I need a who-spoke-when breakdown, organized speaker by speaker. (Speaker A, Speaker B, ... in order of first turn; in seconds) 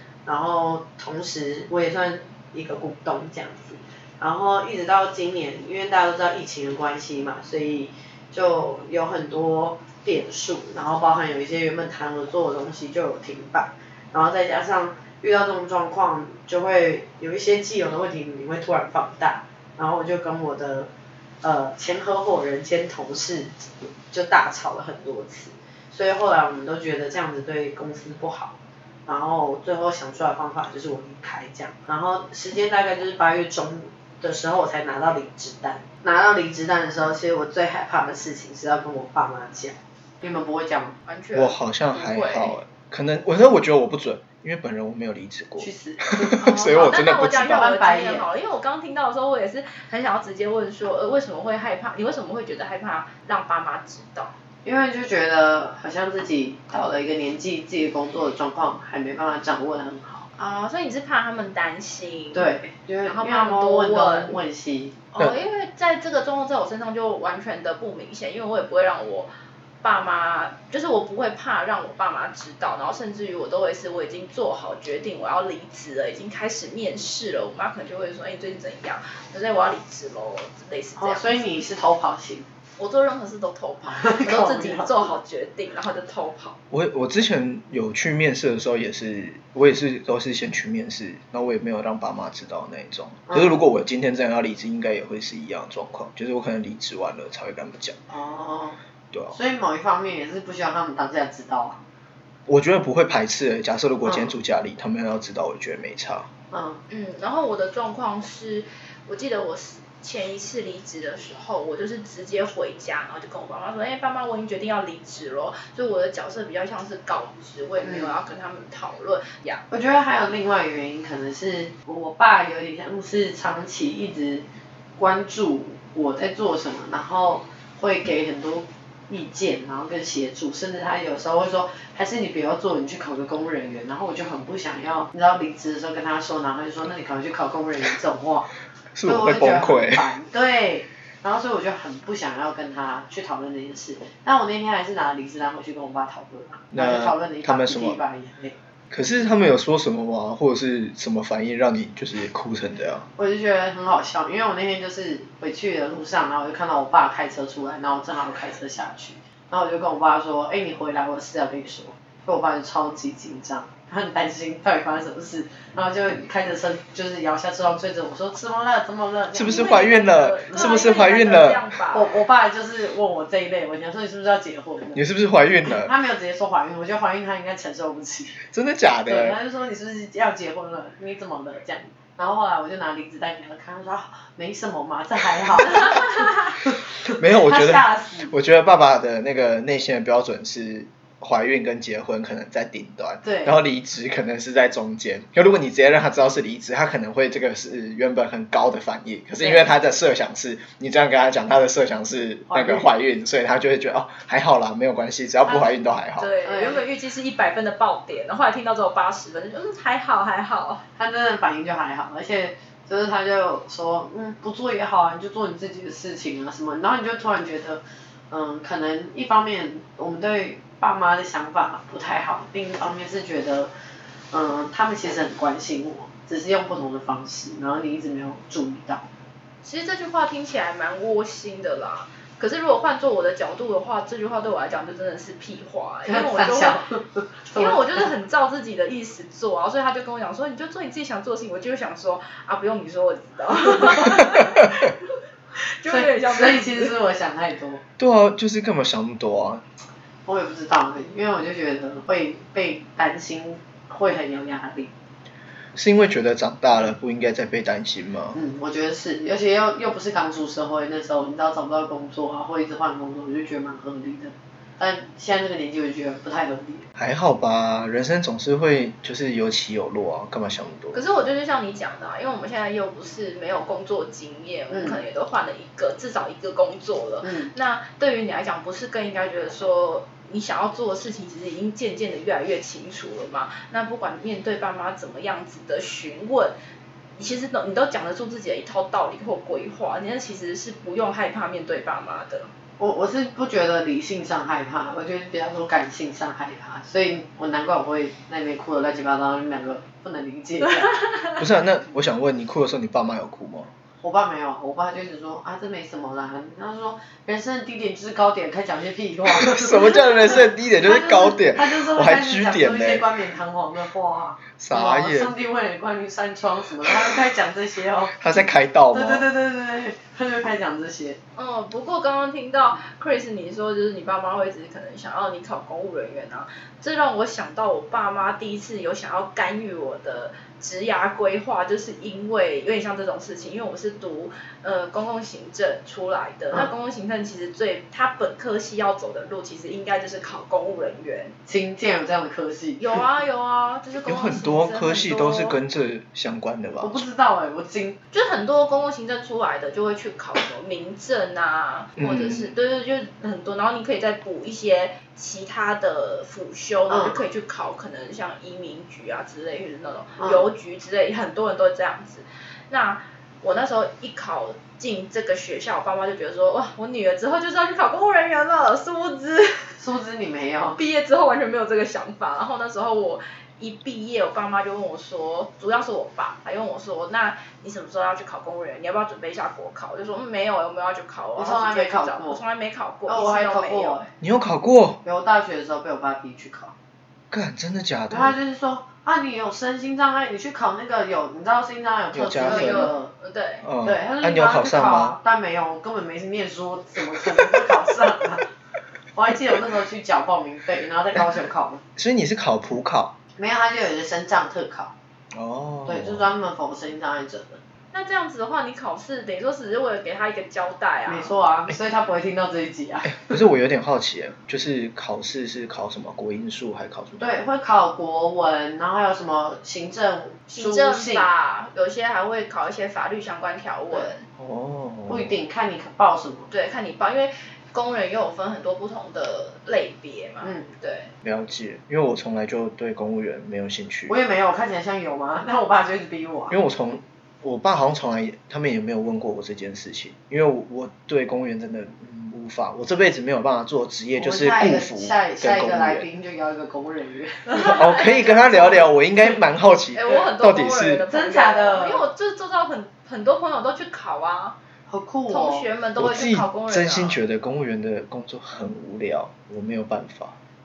Speaker A: 0.2-20.9, 21.4-41.0, 45.6-46.6, 47.4-48.3, 54.6-60.2, 62.3-65.0, 81.0-82.5, 83.8-85.1, 93.3-93.6, 98.1-98.8, 99.3-101.8, 104.0-104.3, 106.5-106.8, 117.8-118.1, 119.7-124.5, 125.0-138.5, 139.1-148.6, 153.2-170.9, 171.9-175.0, 175.6-178.4, 179.1-188.3, 193.2-193.5, 199.4-199.7, 202.5-202.9, 205.4-205.8, 206.4-206.8, 211.0-223.7, 224.3-229.1, 236.0-238.1, 245.8-247.8, 250.2-254.9, 258.3-266.9, 274.7-275.0, 277.2-277.5, 292.8-301.1, 304.0-318.3, 318.9-321.2, 341.4-342.9, 346.8-348.0, 356.9-357.2, 360.2-360.4, 369.8-370.8, 381.4-382.4, 383.1-384.1, 385.0-386.7, 388.1-393.1, 393.8-398.5, 399.1-401.8, 403.4-404.9, 405.9-407.6, 411.1-413.4, 417.2-421.3, 425.1-426.5, 430.4-430.7, 434.1-436.6, 444.2-447.8, 451.1-452.0, 454.9-455.7
Speaker B: 41.0-42.6, 46.4-54.3, 60.4-62.5, 63.0-64.4, 65.1-69.3, 69.8-81.5, 82.8-86.6, 106.9-119.6, 169.4-172.1, 206.2-210.8, 229.6-236.8, 237.5-246.9, 270.9-286.6, 287.2-292.5, 300.8-301.4, 321.4-341.3, 342.8-345.6, 348.1-369.8, 370.8-384.0, 392.4-393.6, 407.9-411.3, 420.5-424.2, 426.5-431.1, 447.5-448.9, 449.9-454.6, 455.3-457.2
Speaker C: 41.3-47.6, 86.7-98.0, 102.5-106.3, 138.9-140.1, 146.7-148.0, 148.9-153.1, 169.3-171.6, 174.9-175.9, 178.5-179.4, 187.1-206.3, 248.0-249.6, 255.7-258.4, 266.9-271.0, 301.4-303.7, 309.3-313.1, 314.6-315.3, 318.1-319.2, 344.0-347.0, 352.0-352.5, 384.2-385.0, 387.3-388.4, 392.1-392.9, 393.6-395.2, 402.0-403.1, 405.3-406.3, 413.0-417.3, 424.4-425.4, 431.2-434.1, 436.5-446.1, 447.6-451.0, 456.0-460.4